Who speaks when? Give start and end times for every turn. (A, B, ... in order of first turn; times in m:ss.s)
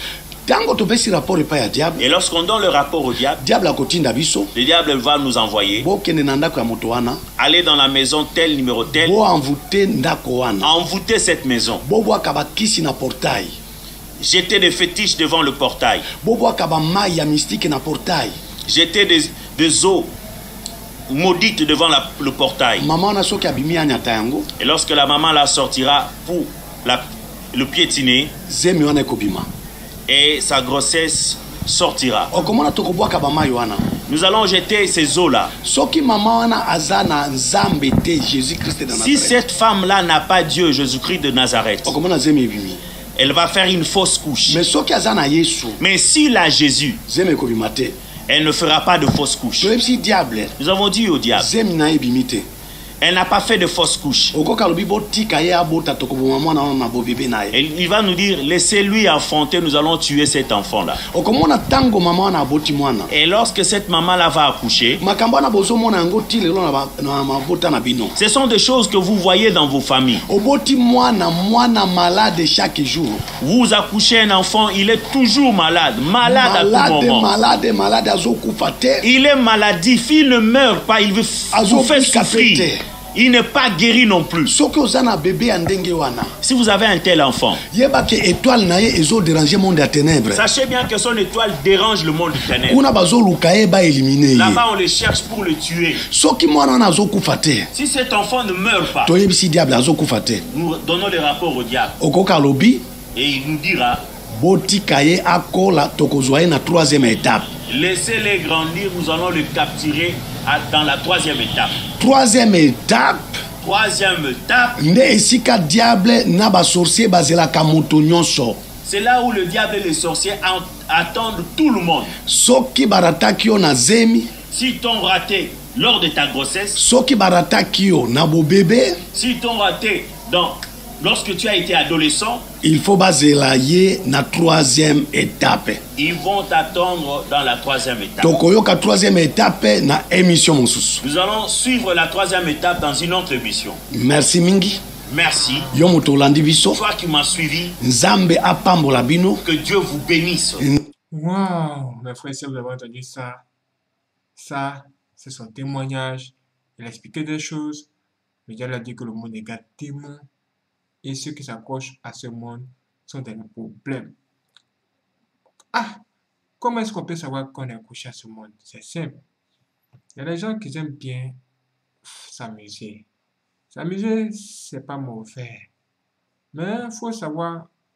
0:00.5-0:02.1 A
0:02.0-0:03.4 B
0:03.4-0:04.5 A
0:04.6-0:05.9 B
0:05.8-0:07.2 A
0:07.4-0:09.2 B
0:08.9-0:10.7 A
0:10.6-0:11.8 B
0:11.8-0:13.6 A
0:14.2-0:16.1 B
0:16.2-0:18.4 A
0:18.7-0:20.1 B
0:21.1-0:22.9 B
0:22.8-0:24.5 A
0:24.6-0:28.3 B
0:28.5-0:29.5 A
0:30.1-0:32.3 B
0:32.3-0:33.9 A
0:34.1-0:35.5 B
0:35.6-0:39.4 A
0:38.9-0:42.0 B
0:41.8-0:42.8 A
0:43.2-0:44.6 B
0:44.5-0:45.8 A
0:45.8-0:47.0 B
0:47.1-0:48.0 A
0:48.3-0:49.7 B
0:49.6-0:50.5 A
0:50.6-0:51.5 B
0:51.4-0:52.5 A
0:53.0-0:54.4 B
0:54.3-0:57.6 A
0:57.5-1:01.0 B
1:01.1-1:03.1 A
1:03.1-1:05.0 B
1:05.0-1:08.2 A
1:08.2-1:10.2 B
1:10.3-1:13.2 A
1:13.4-1:17.3 B
1:16.2-1:19.1 A
1:19.0-1:24.5 B
1:21.5-1:22.8 A
1:24.5-1:26.3 A
1:26.4-1:27.6 B
1:27.7-1:30.4 A
1:30.3-1:32.8 B
1:32.7-1:34.6 A
1:34.4-1:36.0 B
1:36.1-1:37.7 A
1:37.7-1:39.2 B
1:39.0-1:40.4 A
1:40.5-1:42.0 B
1:42.0-1:42.9 A
1:43.2-1:44.0 B
1:44.3-1:47.5 A
1:47.7-1:51.8 B
1:52.0-1:53.4 A
1:53.6-1:54.8 B
1:54.8-1:58.6 A
1:58.8-2:02.1 B
2:02.3-2:04.3 A
2:04.5-2:06.8 B
2:06.8-2:09.0 A
2:09.1-2:12.5 B
2:12.6-2:15.8 A
2:16.0-2:18.4 B
2:18.2-2:21.0 A
2:21.0-2:23.8 B
2:23.9-2:24.8 A
2:25.1-2:25.7 B
2:25.4-2:25.8 C
2:25.7-2:26.8 A
2:26.7-2:27.8 B
2:27.8-2:29.4 A
2:29.4-2:30.7 B
2:31.1-2:33.5 C
2:34.4-2:37.9 C
2:38.5-2:40.3 C
2:41.0-2:44.2 C
2:45.7-2:46.0 C
2:46.6-2:49.2 C
2:50.2-2:51.4 C
2:52.0-2:53.1 C
2:53.7-2:55.7 C
2:56.5-2:57.7 C